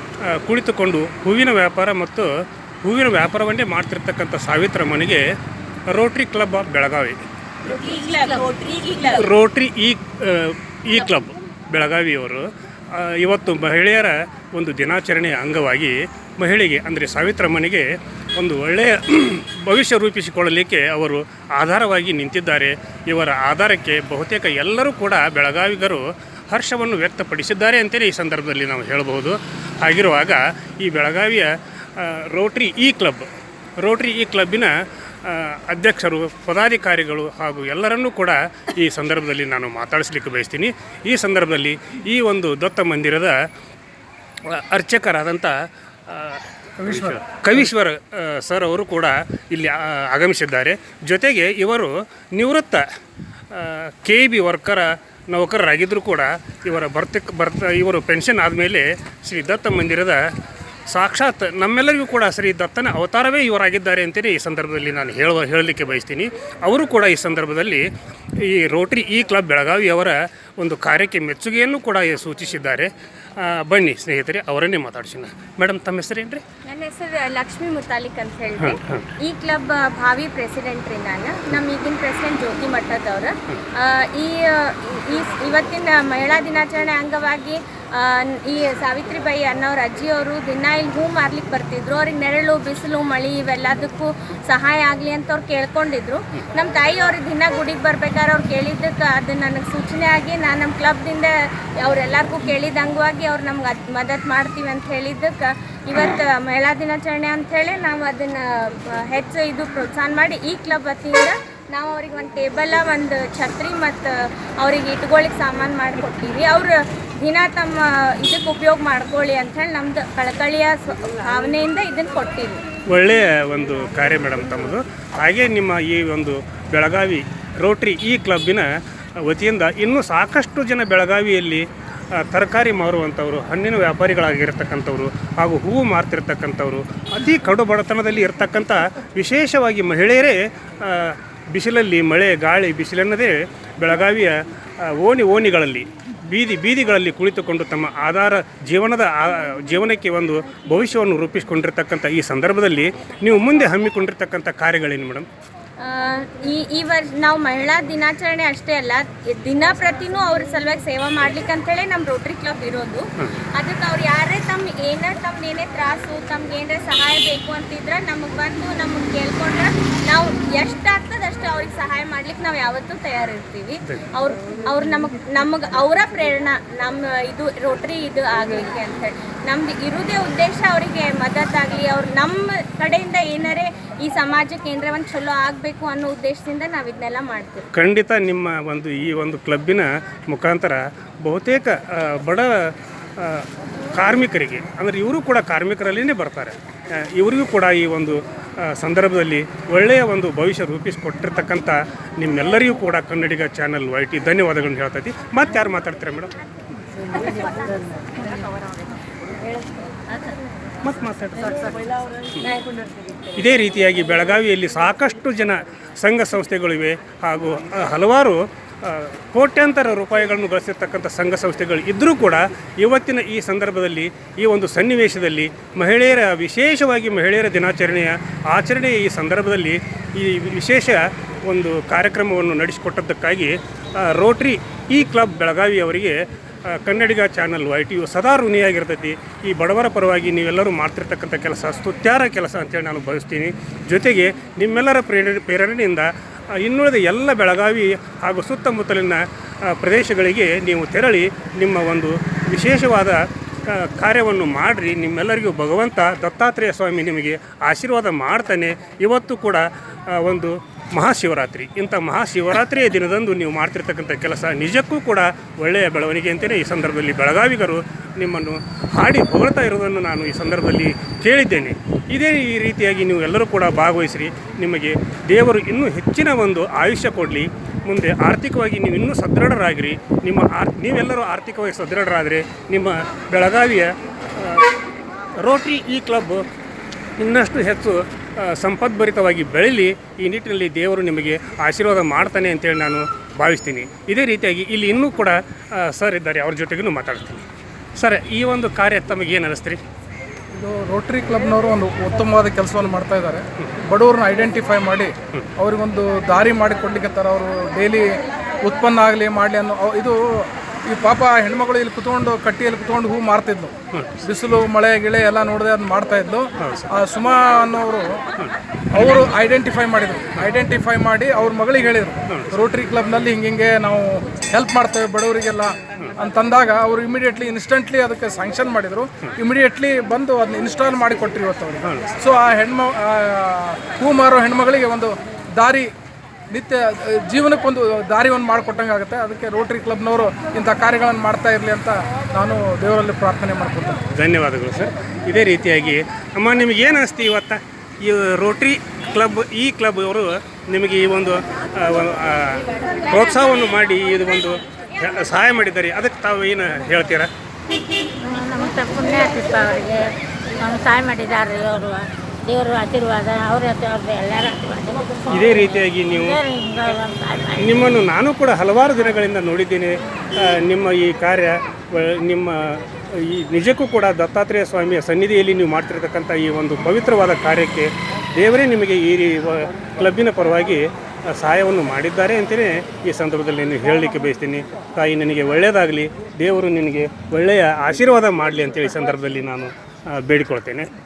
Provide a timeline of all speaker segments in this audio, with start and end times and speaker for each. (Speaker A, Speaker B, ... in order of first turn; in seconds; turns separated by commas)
Speaker A: 0.2-2.3, Speaker A: 2.8-5.2, Speaker A: 5.9-7.2, Speaker B: 7.7-9.2, Speaker A: 9.1-34.7, Speaker A: 35.2-43.3, Speaker A: 44.5-45.5, Speaker A: 46.1-52.8, Speaker C: 46.8-47.2, Speaker A: 53.5-60.2, Speaker A: 60.9-76.4, Speaker B: 76.7-122.6, Speaker A: 78.6-79.0, Speaker A: 122.9-128.7, Speaker A: 129.2-155.3, Speaker B: 155.8-187.7, Speaker A: 163.2-163.4, Speaker A: 187.7-206.3, Speaker A: 210.8-211.7, Speaker A: 213.3-284.7, Speaker A: 285.4-286.4, Speaker A: 287.2-299.8, Speaker C: 300.5-313.7, Speaker A: 313.9-314.3, Speaker C: 314.2-318.2, Speaker A: 316.6-316.9, Speaker A: 318.4-319.3, Speaker C: 318.9-335.9, Speaker A: 322.3-322.6, Speaker A: 331.8-332.1, Speaker C: 336.5-344.0, Speaker A: 344.1-357.3, Speaker D: 358.0-367.8, Speaker A: 365.3-366.4, Speaker A: 367.6-390.9